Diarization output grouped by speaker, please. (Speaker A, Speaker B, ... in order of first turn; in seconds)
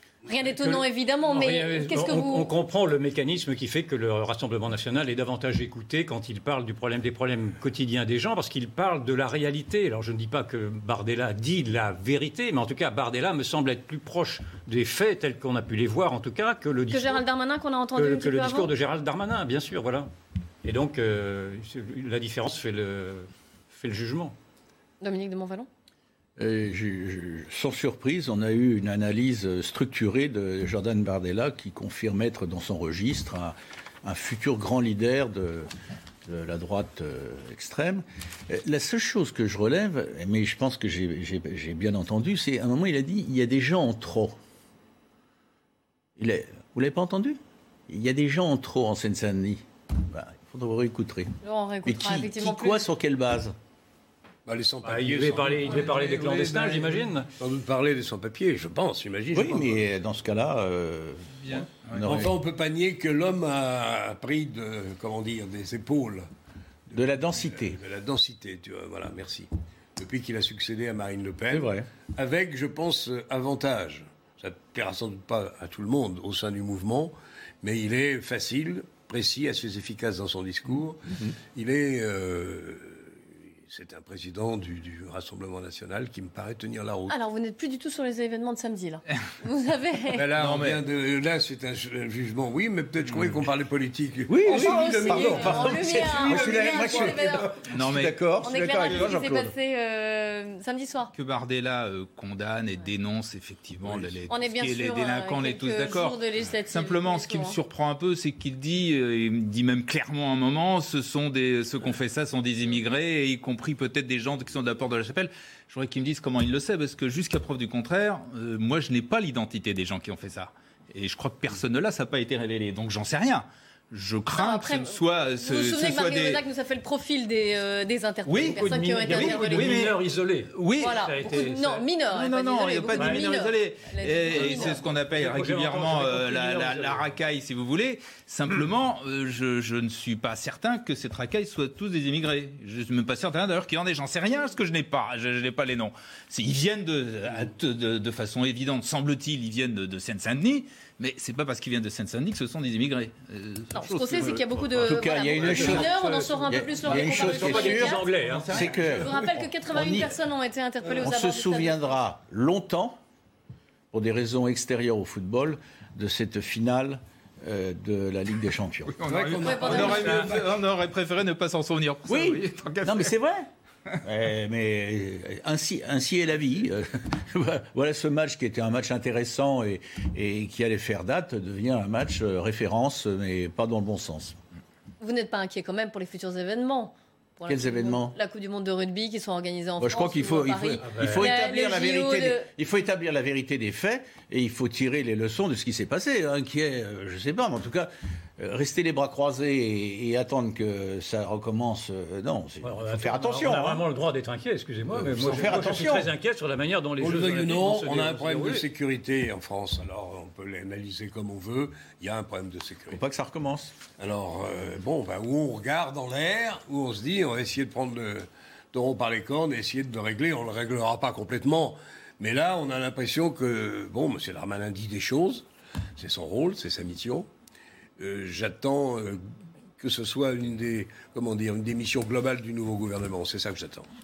Speaker A: 0.2-2.5, 16.9-18.7, 25.0-25.7, 51.4-52.8, 87.1-90.2, 94.5-97.5, 98.4-101.1, 104.3-107.6, 124.3-129.9, 130.8-134.8, 153.7-158.0, 158.9-161.8, 169.4-170.3, 185.0-192.5
Speaker B: 0.4-17.2, 17.9-20.1, 20.6-24.4, 54.8-57.3, 128.4-131.9, 132.9-133.3, 134.3-137.1, 155.4-156.2, 156.8-158.7, 190.8-191.3, 202.6-208.7
Speaker C: 26.4-35.7, 36.2-44.4, 46.2-53.5, 59.3-62.3, 66.9-67.8, 71.5-71.9, 94.3-99.5, 154.8-160.1, 160.9-163.0, 163.9-169.1, 172.1-173.5, 174.0-184.3, 187.4-188.2, 189.8-203.8, 204.9-206.1, 212.9-213.7
Speaker D: 54.5-59.9, 62.0-66.2, 67.4-87.2, 90.1-97.3, 103.8-104.2, 169.0-170.6, 207.0-213.0, 214.0-225.4, 226.0-227.3, 228.0-229.2, 229.8-233.9
Speaker E: 61.4-62.2, 90.4-90.8, 93.0-93.4, 97.7-98.2, 98.8-99.1, 101.1-126.4, 128.2-130.0, 130.5-131.0, 132.1-154.6, 158.1-158.6, 168.9-173.1